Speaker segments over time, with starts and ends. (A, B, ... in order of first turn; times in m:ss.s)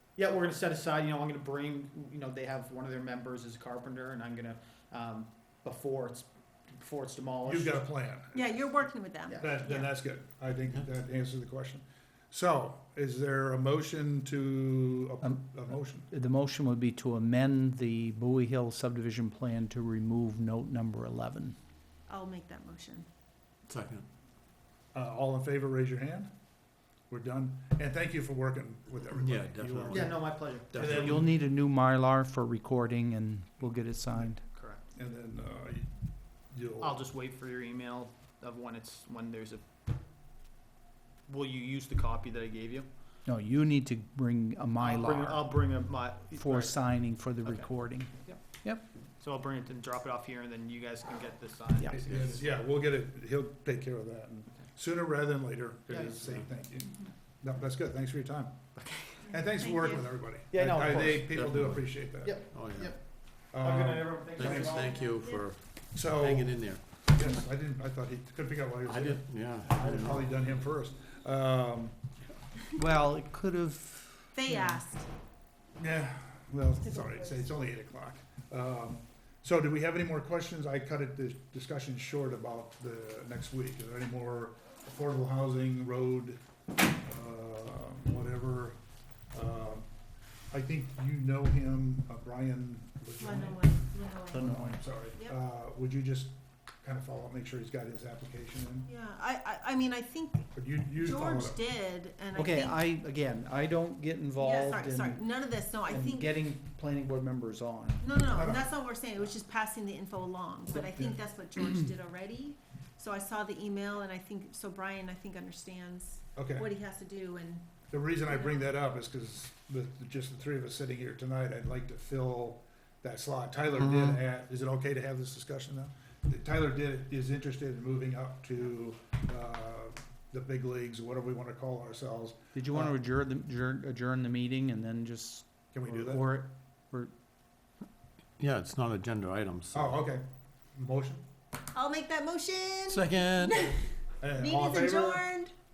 0:00.2-0:07.8 A
0:07.4-0:08.5 B
0:08.3-0:09.9 C
0:09.4-0:16.1 B
0:15.2-0:21.6 D
0:22.1-0:23.1 C
0:23.7-0:24.1 E
0:24.9-0:26.3 B
0:27.1-0:30.1 B
0:29.1-0:31.2 E
0:29.9-0:31.2 A
0:30.7-0:31.3 B
0:31.0-0:34.4 D
0:34.5-0:34.8 A
0:34.9-0:35.9 B
0:36.5-0:37.0 B
0:36.8-0:39.6 A
0:41.3-0:42.9 A
0:43.3-0:45.5 D
0:44.8-0:48.4 A
0:46.3-0:48.8 D
0:49.2-0:52.5 A
0:51.9-0:58.6 B
0:52.1-0:52.4 E
0:55.9-0:56.4 A
0:56.0-0:56.4 E
0:58.8-0:59.2 A
0:59.2-1:00.2 C
0:59.3-1:02.4 B
1:00.5-1:01.3 A
1:01.3-1:03.0 E
1:02.2-1:03.0 A
1:03.5-1:04.8 B
1:03.6-1:05.0 A
1:04.3-1:06.8 E
1:04.6-1:05.4 C
1:05.9-1:12.0 B
1:08.8-1:10.3 E
1:12.8-1:14.8 D
1:14.3-1:15.1 C
1:15.8-1:26.4 B
1:16.8-1:17.4 C
1:27.0-1:28.8 B
1:29.3-1:29.9 B
1:30.5-1:33.8 B
1:33.2-1:35.4 C
1:34.3-1:34.8 D
1:34.4-1:38.9 B
1:38.9-1:42.8 C
1:40.6-1:41.6 B
1:42.3-1:48.1 D
1:44.4-1:46.3 C
1:48.0-1:57.7 C
1:48.3-1:48.7 B
1:50.8-1:51.2 B
1:56.4-1:56.7 B
1:57.9-2:13.0 B
1:58.3-1:58.7 C
2:03.8-2:04.2 E
2:12.5-2:17.1 D
2:15.7-2:16.2 B
2:18.4-2:20.1 E
2:19.7-2:21.2 B
2:21.7-2:23.8 C
2:22.9-2:23.7 E
2:24.2-2:25.3 B
2:24.4-2:25.5 C